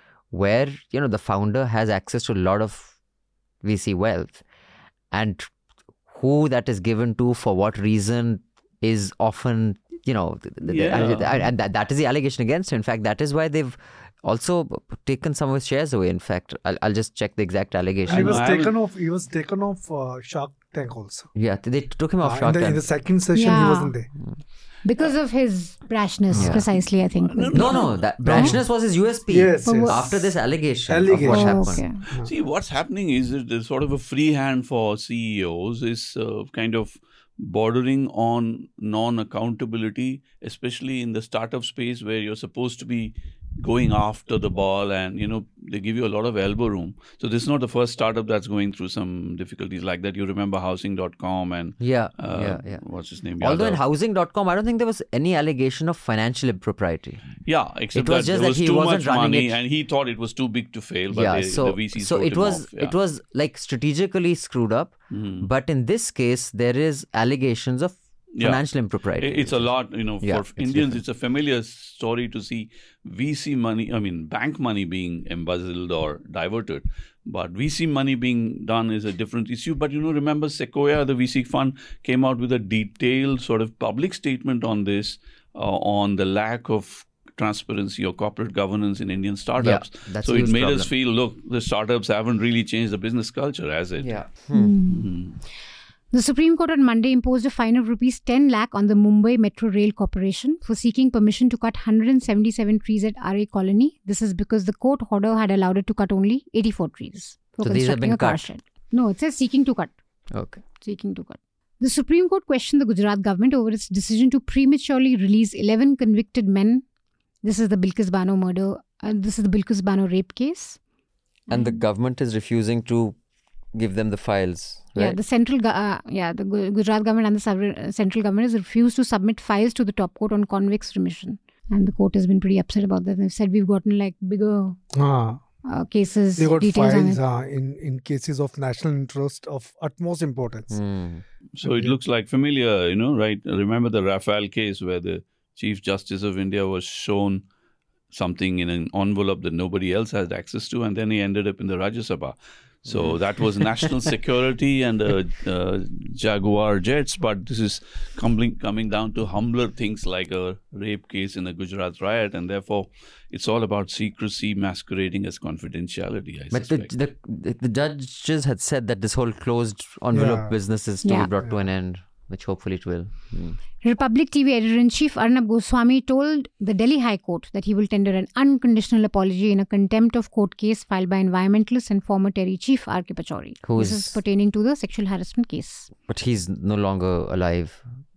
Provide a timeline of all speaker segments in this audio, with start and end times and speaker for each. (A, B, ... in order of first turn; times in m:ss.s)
0:00.3-0:02.9 A
0:03.6-0:04.4 A
0:05.1-0:05.5 A
0:06.1-0:18.5 A
0:10.6-0:11.3 B
0:18.1-0:18.7 B
0:18.1-0:21.3 C
0:21.4-0:22.8 A
0:22.2-0:24.1 C
0:23.3-0:24.0 D
0:24.8-0:27.8 D
0:26.3-0:26.6 C
0:26.4-0:26.6 A
0:27.3-0:28.0 B
0:27.5-0:31.8 A
0:28.2-0:28.6 C
0:28.3-0:28.5 D
0:29.3-0:30.2 C
0:29.6-0:30.1 D
0:30.9-0:32.3 C
0:31.2-0:32.0 D
0:32.2-0:53.8 B
0:51.8-0:52.8 A
0:53.4-0:57.2 A
0:57.5-1:03.0 B
0:58.0-0:59.6 A
1:01.1-1:09.7 A
1:05.1-1:05.5 B
1:08.4-1:08.6 B
1:09.2-1:34.2 B
1:10.2-1:11.0 A
1:29.6-1:30.9 A
1:34.0-1:34.8 A
1:34.6-1:35.1 D
1:34.9-1:35.4 B
1:36.1-1:49.9 D
1:47.6-1:48.5 A
1:50.3-1:50.6 A
1:50.8-1:56.8 D
1:57.4-2:00.8 D
2:01.5-2:03.2 A
2:01.5-2:01.8 D
2:03.7-2:05.2 A
2:05.0-2:14.8 D
2:14.9-2:15.4 C
2:15.7-2:17.2 D
2:16.4-2:20.8 C
2:20.7-2:21.2 A
2:21.6-2:27.4 B
2:21.6-2:22.0 C
2:28.1-2:46.9 B
2:32.9-2:33.7 A
2:46.5-2:53.6 A
2:50.1-2:50.5 C
2:51.0-2:51.3 D
2:53.8-3:05.9 D
3:03.6-3:04.2 A
3:06.1-3:07.8 A